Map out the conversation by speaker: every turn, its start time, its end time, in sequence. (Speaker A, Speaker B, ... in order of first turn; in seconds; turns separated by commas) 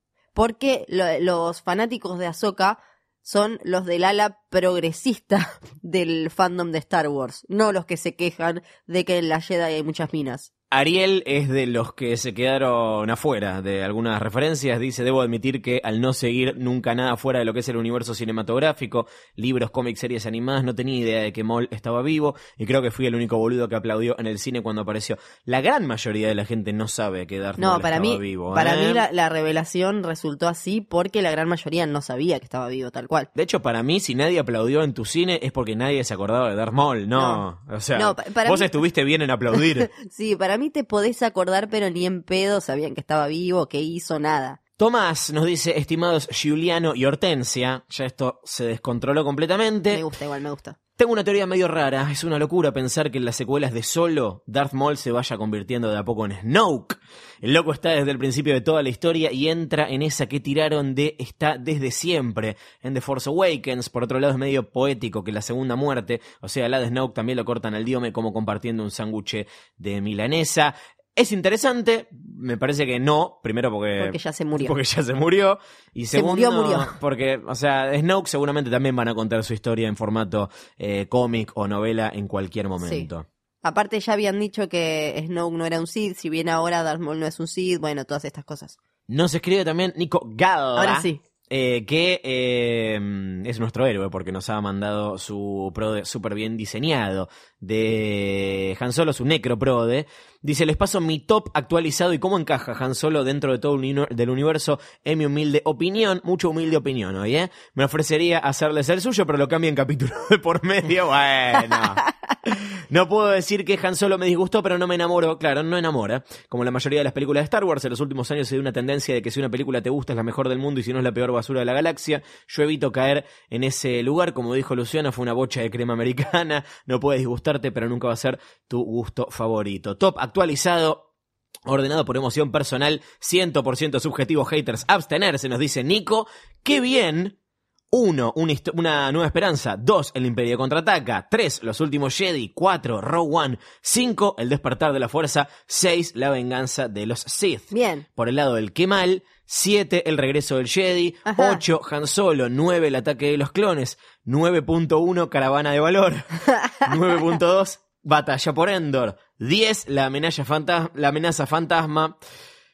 Speaker A: 0.3-10.5, Speaker B: 10.7-29.0, Speaker A: 27.6-33.3, Speaker B: 33.3-39.9, Speaker A: 37.1-37.4, Speaker A: 38.0-38.7, Speaker A: 39.5-44.6, Speaker B: 44.8-50.0, Speaker A: 49.9-50.8, Speaker B: 51.0-83.3, Speaker A: 74.0-74.8, Speaker A: 76.1-76.9, Speaker A: 82.8-83.1, Speaker A: 83.6-88.8, Speaker B: 89.1-131.1, Speaker A: 90.8-91.2, Speaker B: 131.7-137.3, Speaker B: 137.9-162.2, Speaker A: 147.7-148.0, Speaker A: 151.2-151.6, Speaker A: 156.6-156.9